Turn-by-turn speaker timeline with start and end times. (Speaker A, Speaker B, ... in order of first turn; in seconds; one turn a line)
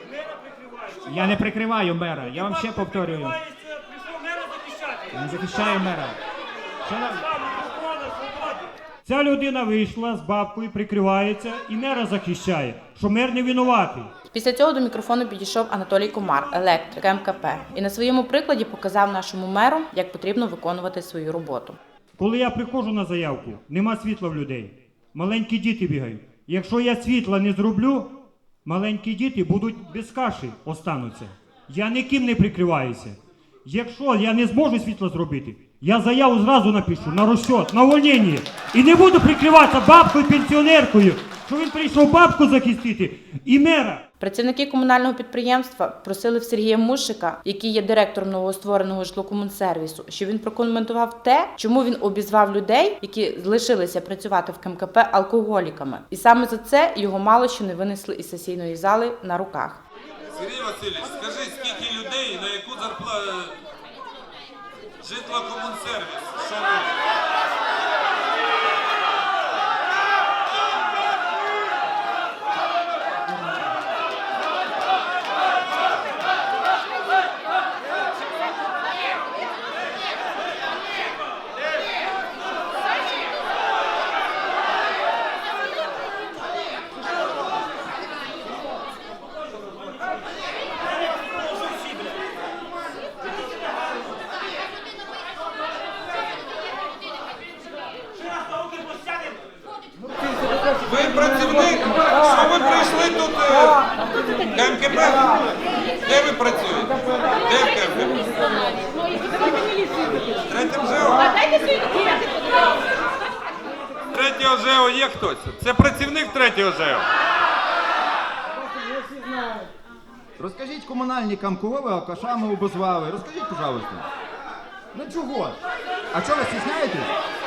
Speaker A: 0.9-3.4
Speaker A: 5.1-6.2
Speaker A: 6.8-7.7
Speaker B: 9.1-14.1
Speaker C: 14.3-21.8
Speaker B: 22.2-28.1
Speaker B: 28.6-44.0
Speaker C: 44.2-59.8
Speaker D: 60.3-63.5
Speaker D: 65.0-66.9
Speaker D: 100.8-103.8
Speaker D: 104.4-105.3
Speaker D: 106.0-108.7
Speaker D: 110.5-111.4
Speaker D: 114.1-117.1
Speaker E: 120.4-124.1
Speaker E: 124.9-125.6
Speaker E: 126.1-127.1